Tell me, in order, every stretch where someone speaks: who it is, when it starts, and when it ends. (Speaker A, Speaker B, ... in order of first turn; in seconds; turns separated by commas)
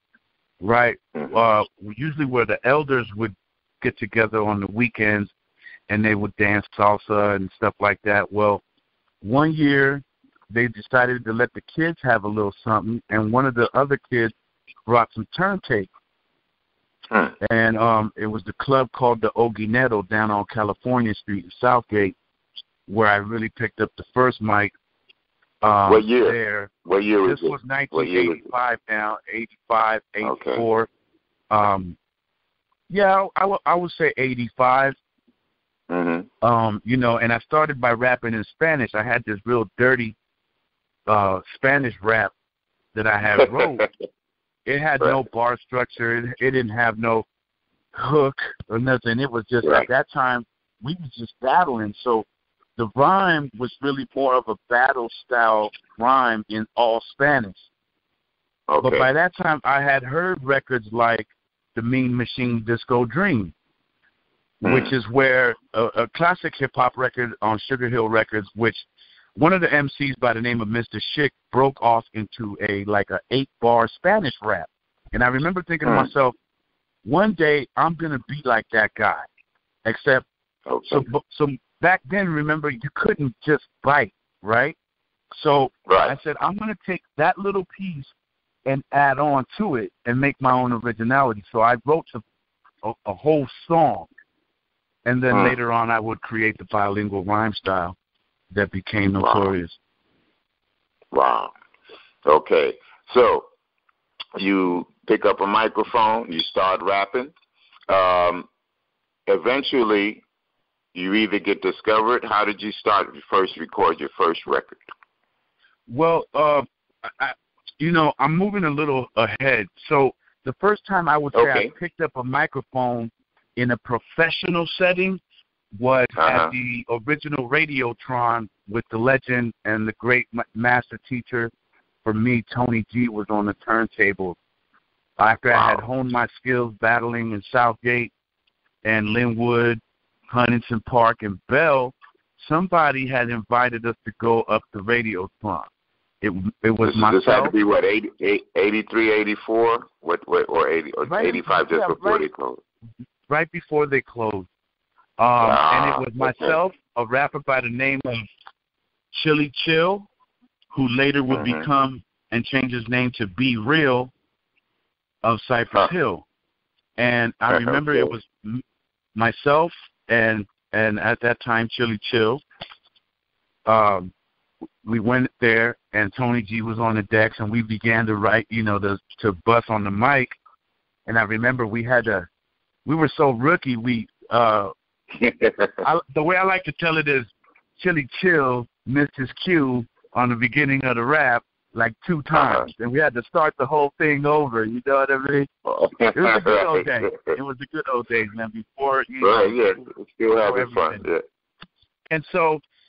Speaker A: 0.6-5.3, Speaker A: 5.9-8.6, Speaker A: 9.2-14.3, Speaker A: 14.9-15.9, Speaker A: 17.4-22.2, Speaker A: 22.9-24.7, Speaker A: 25.6-26.7, Speaker B: 25.9-28.4, Speaker A: 27.2-30.9, Speaker B: 30.2-30.6, Speaker A: 31.5-32.0, Speaker A: 32.9-35.0, Speaker B: 35.9-36.3, Speaker A: 36.4-40.2, Speaker A: 41.1-42.3, Speaker A: 42.9-43.9, Speaker B: 43.4-43.9, Speaker A: 44.7-47.3, Speaker A: 47.9-52.2, Speaker A: 52.8-57.7, Speaker B: 58.7-59.1, Speaker A: 58.8-63.5, Speaker A: 64.6-68.8, Speaker B: 64.6-64.9, Speaker A: 69.4-76.3, Speaker B: 75.8-76.1, Speaker A: 77.0-79.3, Speaker A: 79.8-80.3, Speaker B: 80.7-81.1, Speaker A: 80.9-84.8, Speaker A: 85.4-88.1, Speaker B: 85.9-86.2, Speaker A: 88.7-92.2, Speaker A: 92.8-94.1, Speaker A: 95.0-98.0, Speaker B: 95.3-95.6, Speaker A: 98.5-99.8, Speaker B: 99.2-99.5, Speaker B: 101.1-101.5, Speaker B: 102.2-103.5, Speaker B: 104.4-107.3, Speaker B: 107.9-108.5, Speaker B: 109.3-110.2, Speaker B: 110.9-114.8, Speaker A: 115.9-125.2, Speaker B: 121.3-121.7, Speaker A: 125.8-131.5, Speaker B: 126.2-126.5, Speaker A: 132.0-134.4, Speaker A: 135.2-138.1, Speaker B: 135.5-135.8, Speaker A: 138.8-145.7, Speaker A: 146.2-147.5, Speaker B: 146.8-152.6, Speaker A: 151.0-152.3, Speaker A: 153.3-154.5, Speaker A: 155.2-158.3, Speaker B: 155.4-156.5, Speaker A: 159.1-160.1, Speaker A: 160.7-164.1, Speaker B: 161.3-161.7, Speaker A: 165.2-166.2, Speaker A: 167.0-168.6, Speaker B: 167.5-168.1, Speaker A: 169.2-172.4, Speaker A: 173.7-174.1, Speaker A: 174.8-180.3, Speaker A: 181.1-182.3, Speaker A: 182.8-184.7, Speaker B: 185.1-185.8, Speaker A: 185.8-195.5, Speaker B: 192.3-192.7, Speaker B: 195.7-197.4, Speaker A: 196.1-199.8, Speaker B: 199.2-201.2, Speaker A: 200.4-201.0, Speaker A: 202.1-202.6